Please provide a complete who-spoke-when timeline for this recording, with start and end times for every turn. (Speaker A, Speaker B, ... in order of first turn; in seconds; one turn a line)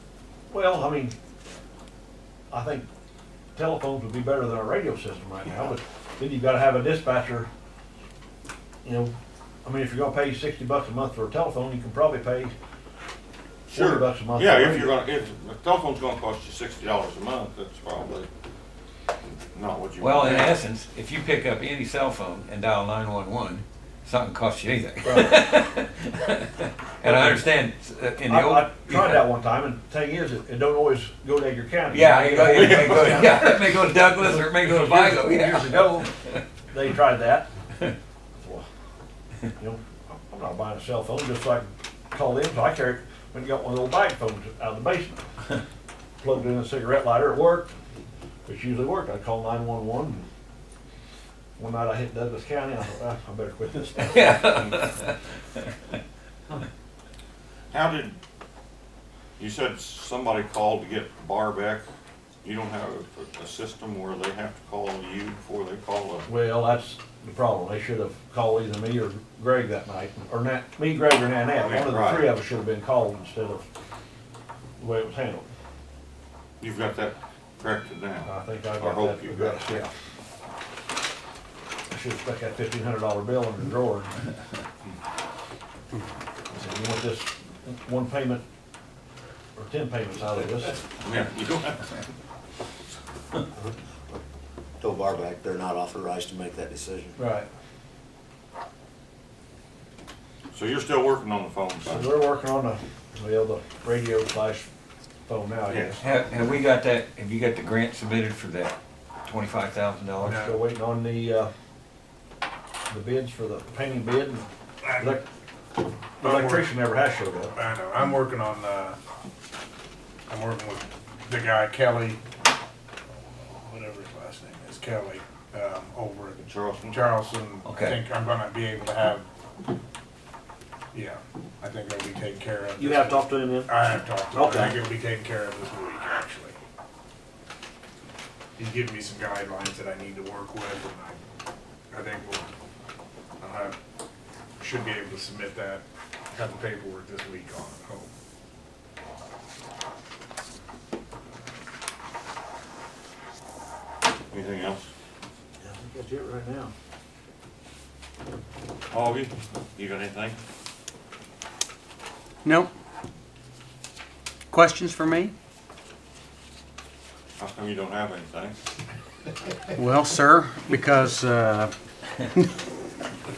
Speaker A: 0.5-1.1
Speaker A: 2.5-2.9
Speaker A: 3.5-7.5
Speaker A: 8.8-12.5
Speaker B: 13.7-18.3
Speaker A: 13.7-14.9
Speaker B: 19.3-20.6
Speaker C: 20.0-29.3
Speaker A: 25.0-25.5
Speaker A: 27.0-27.4
Speaker A: 28.3-36.1
Speaker C: 31.9-36.4
Speaker B: 32.5-33.5
Speaker A: 36.7-37.5
Speaker A: 38.3-38.6
Speaker A: 39.5-45.2
Speaker A: 46.2-47.7
Speaker A: 48.4-50.3
Speaker A: 51.6-54.4
Speaker C: 54.0-55.6
Speaker B: 57.7-58.2
Speaker B: 59.4-61.8
Speaker B: 62.4-66.3
Speaker A: 66.2-73.6
Speaker B: 71.5-72.4
Speaker A: 74.8-75.5
Speaker B: 76.6-79.9
Speaker A: 78.2-79.9
Speaker A: 81.9-84.2
Speaker A: 86.5-88.4
Speaker A: 89.5-90.8
Speaker B: 91.0-91.8
Speaker D: 93.5-94.2
Speaker D: 94.8-97.2
Speaker A: 97.2-97.5
Speaker B: 100.5-102.1
Speaker A: 101.8-104.7
Speaker A: 105.2-106.0
Speaker B: 105.7-106.0
Speaker C: 106.0-110.3
Speaker E: 110.2-110.6
Speaker A: 110.3-111.5
Speaker A: 112.9-115.2
Speaker E: 114.8-115.2
Speaker A: 116.2-117.5
Speaker E: 116.2-116.7
Speaker E: 117.5-119.0
Speaker E: 120.3-122.2
Speaker E: 123.5-129.2
Speaker B: 126.4-127.0
Speaker C: 127.6-127.9
Speaker E: 130.9-136.6
Speaker A: 132.8-134.8
Speaker E: 138.6-141.2
Speaker E: 141.9-142.4
Speaker E: 143.4-143.7
Speaker E: 144.6-148.1
Speaker B: 154.3-154.9
Speaker A: 155.6-156.7
Speaker B: 158.9-160.4
Speaker F: 162.4-162.7
Speaker F: 164.5-165.3
Speaker B: 167.4-168.6
Speaker F: 169.8-171.7